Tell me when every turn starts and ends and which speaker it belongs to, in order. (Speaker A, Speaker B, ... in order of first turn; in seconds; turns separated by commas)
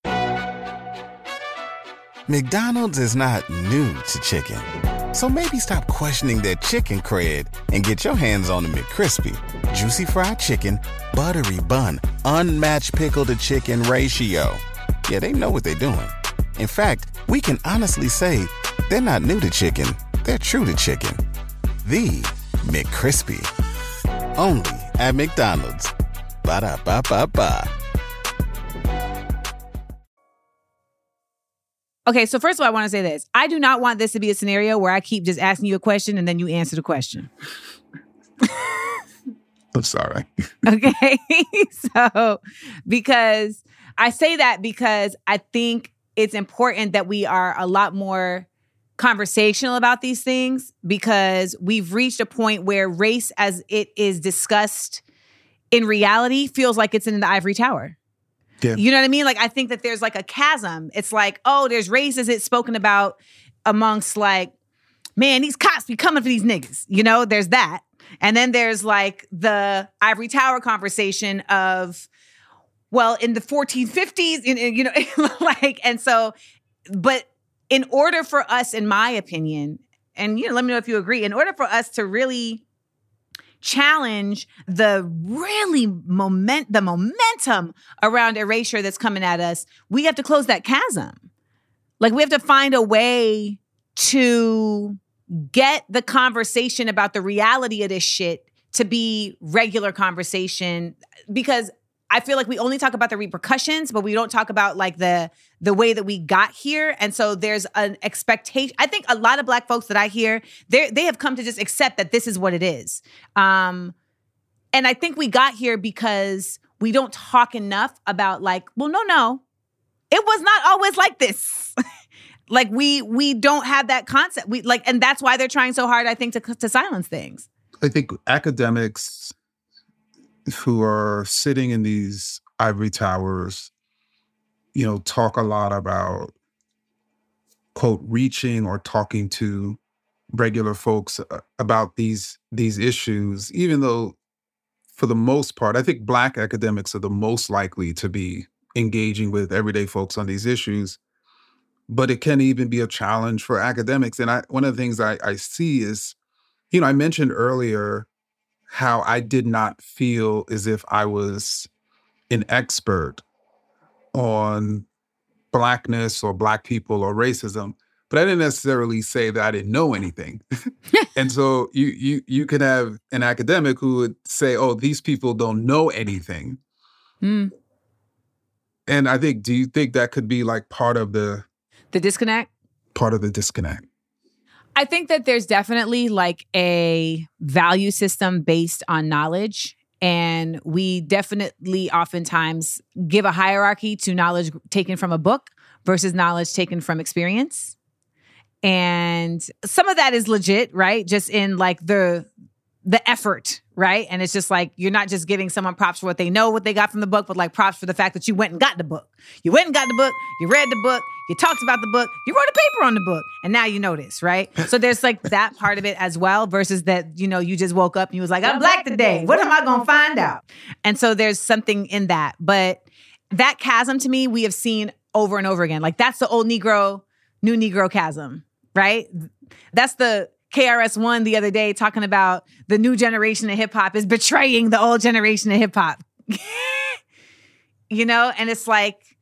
Speaker A: 2.3-21.2, Speaker A: 21.8-23.5, Speaker A: 24.4-25.9, Speaker A: 26.4-27.7, Speaker B: 32.1-37.3, Speaker C: 39.7-40.3, Speaker B: 40.6-48.5, Speaker B: 49.0-55.0, Speaker B: 55.7-58.0, Speaker B: 58.8-64.5, Speaker B: 65.2-72.1, Speaker B: 72.9-76.3, Speaker B: 76.9-82.6, Speaker B: 83.6-91.2, Speaker B: 92.0-113.9, Speaker B: 114.7-119.4, Speaker B: 120.1-121.8, Speaker B: 122.5-127.5, Speaker C: 127.8-129.3, Speaker C: 130.5-133.7, Speaker C: 134.7-136.3, Speaker C: 137.7-139.8, Speaker C: 140.3-144.2, Speaker C: 144.9-151.0, Speaker C: 151.9-156.2, Speaker C: 156.7-158.1, Speaker C: 158.7-161.7, Speaker C: 162.3-163.2, Speaker C: 164.1-164.9, Speaker C: 165.5-170.4, Speaker C: 171.2-176.6, Speaker B: 177.2-177.5, Speaker C: 178.9-181.5, Speaker B: 181.9-182.5, Speaker C: 182.9-183.8, Speaker B: 184.8-197.8, Speaker B: 198.6-202.3, Speaker B: 202.8-237.0, Speaker B: 237.9-239.0